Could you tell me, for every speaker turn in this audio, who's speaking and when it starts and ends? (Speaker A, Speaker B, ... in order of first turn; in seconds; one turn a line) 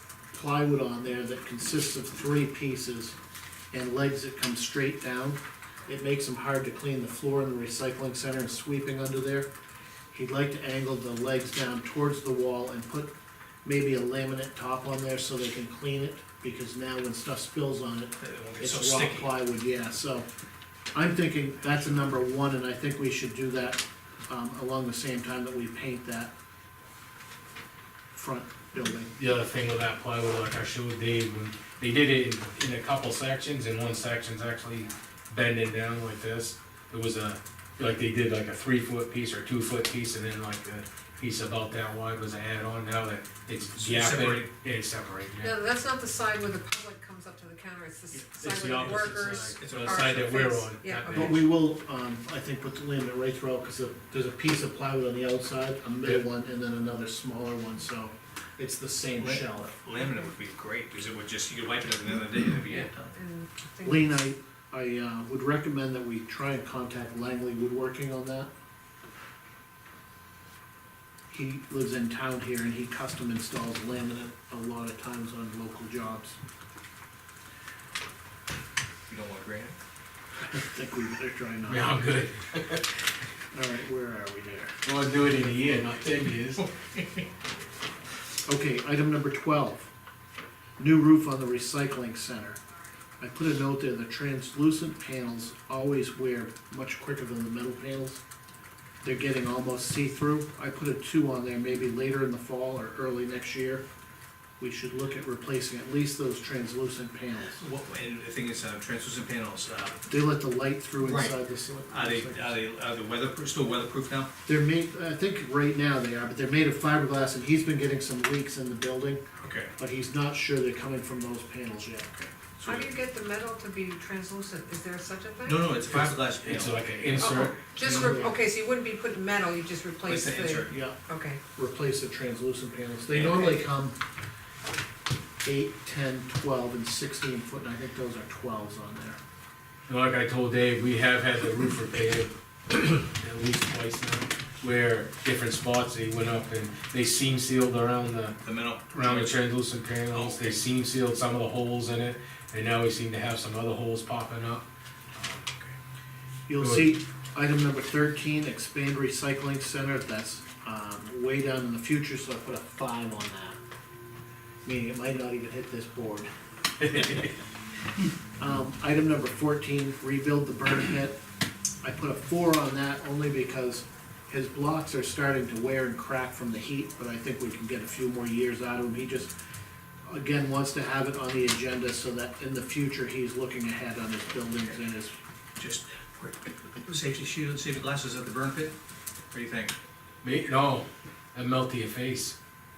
Speaker A: 0.3-3.1
Speaker A: 3.7-9.5
Speaker A: 10.1-13.1
Speaker A: 13.7-20.3
Speaker B: 18.2-19.3
Speaker A: 20.9-26.3
Speaker A: 28.1-29.1
Speaker C: 29.1-45.6
Speaker B: 43.7-44.5
Speaker D: 45.4-51.5
Speaker C: 48.4-51.5
Speaker B: 48.8-50.5
Speaker A: 51.1-59.8
Speaker B: 59.2-63.2
Speaker D: 63.1-64.2
Speaker A: 63.8-68.5
Speaker A: 71.3-76.4
Speaker B: 79.1-79.8
Speaker A: 80.5-82.2
Speaker C: 81.7-82.9
Speaker A: 83.5-85.9
Speaker C: 84.8-86.7
Speaker B: 86.6-87.2
Speaker A: 88.5-89.9
Speaker A: 90.8-92.6
Speaker A: 93.2-98.2
Speaker A: 99.0-103.8
Speaker A: 104.6-107.6
Speaker B: 107.5-110.0
Speaker A: 110.1-112.6
Speaker B: 111.0-111.4
Speaker B: 111.9-114.3
Speaker A: 114.5-119.2
Speaker B: 119.4-119.7
Speaker A: 119.8-122.8
Speaker D: 122.6-125.8
Speaker B: 125.5-127.4
Speaker C: 125.9-128.2
Speaker D: 127.2-131.4
Speaker A: 127.9-128.4
Speaker B: 130.1-130.7
Speaker A: 130.7-131.0
Speaker A: 131.6-134.0
Speaker B: 133.1-133.6
Speaker A: 135.4-139.2
Speaker C: 139.9-148.4
Speaker B: 148.4-149.4
Speaker C: 148.9-155.4
Speaker B: 150.1-150.6
Speaker B: 155.5-155.7
Speaker A: 156.5-163.6
Speaker C: 156.6-156.9
Speaker A: 164.7-166.3
Speaker A: 166.8-167.3
Speaker A: 168.4-171.2
Speaker A: 171.8-179.3
Speaker A: 180.1-185.1
Speaker B: 185.6-188.8
Speaker B: 189.3-189.8
Speaker C: 190.2-192.3